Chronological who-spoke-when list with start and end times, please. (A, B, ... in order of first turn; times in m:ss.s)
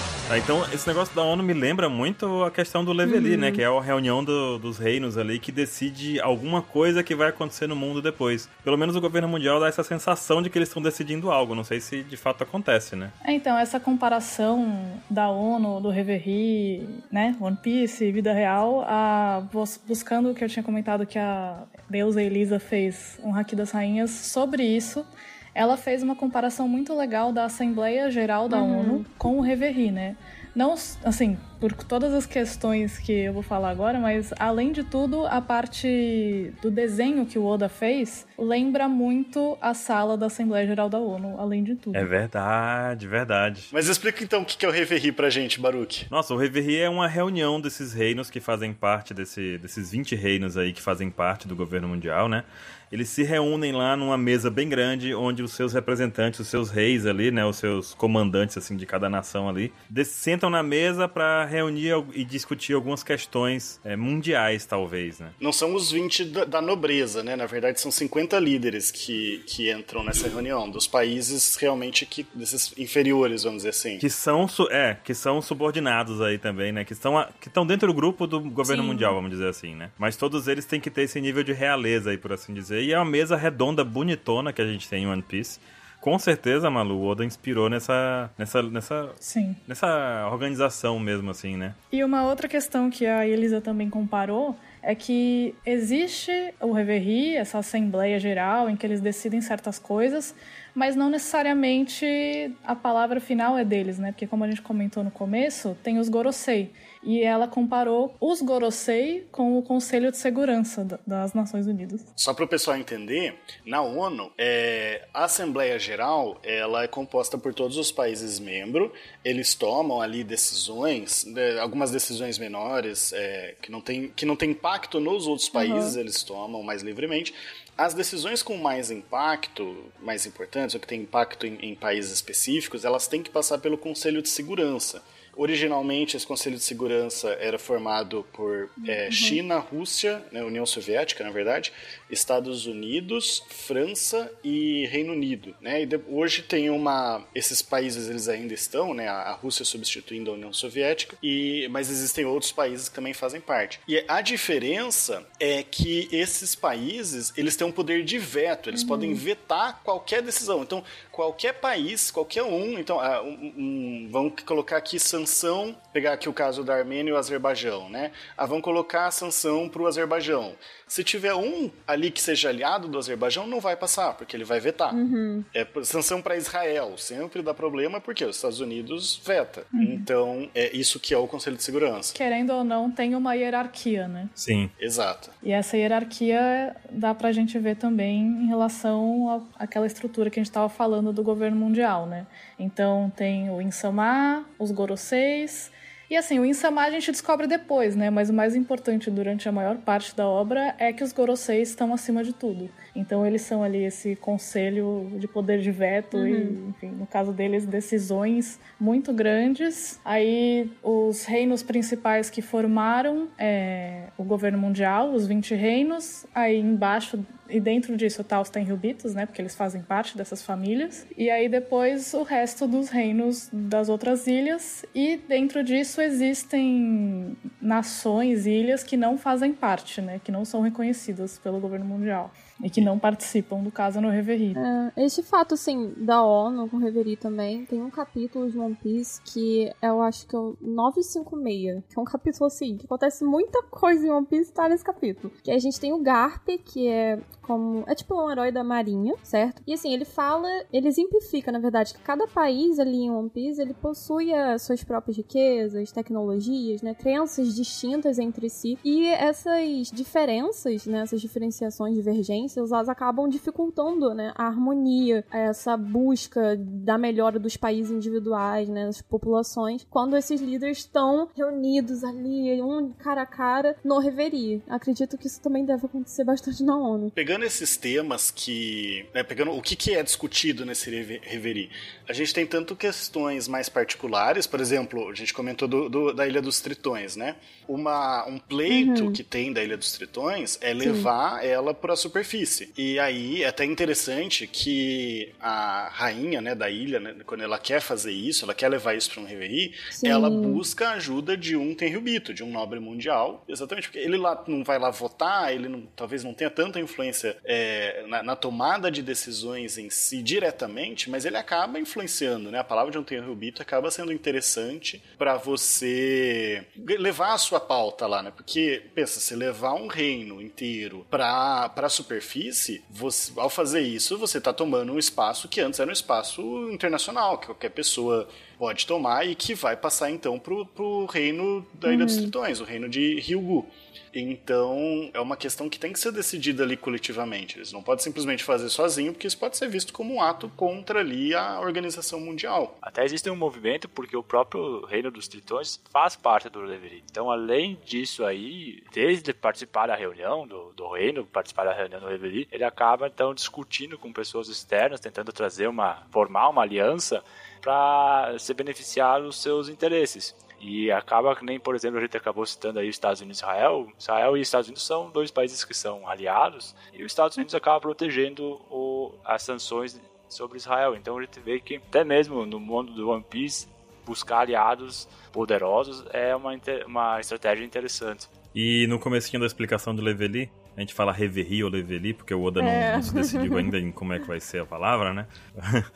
0:00.3-0:13.1 A
0:03.0-0:03.6 B
0:13.2-0:42.1 C
0:28.5-0:29.1 B
0:41.9-0:43.7 A
0:43.7-0:46.1 D
0:46.1-1:05.4 A
1:05.4-1:14.0 D
1:14.0-1:29.2 A
1:18.6-1:19.2 B
1:29.2-1:29.6 C
1:29.7-1:31.8 A
1:31.9-1:52.1 C
1:52.2-2:55.0 D
2:05.5-2:06.0 B
2:18.8-2:19.4 B
2:38.7-2:39.2 B
2:54.9-2:55.5 B
2:55.5-3:02.2 D
2:59.8-3:00.0 C
3:02.1-3:04.3 C
3:04.4-3:04.7 A
3:04.8-3:05.4 D
3:05.4-3:54.6 C
3:26.1-3:26.6 B
3:54.5-4:37.1 B
4:37.1-5:42.8 D
4:48.7-4:49.2 B
4:50.8-4:51.1 B
4:59.9-5:00.6 B
5:31.8-5:32.3 B
5:42.8-6:18.3 E
6:18.5-6:25.9 A
6:22.6-6:23.7 B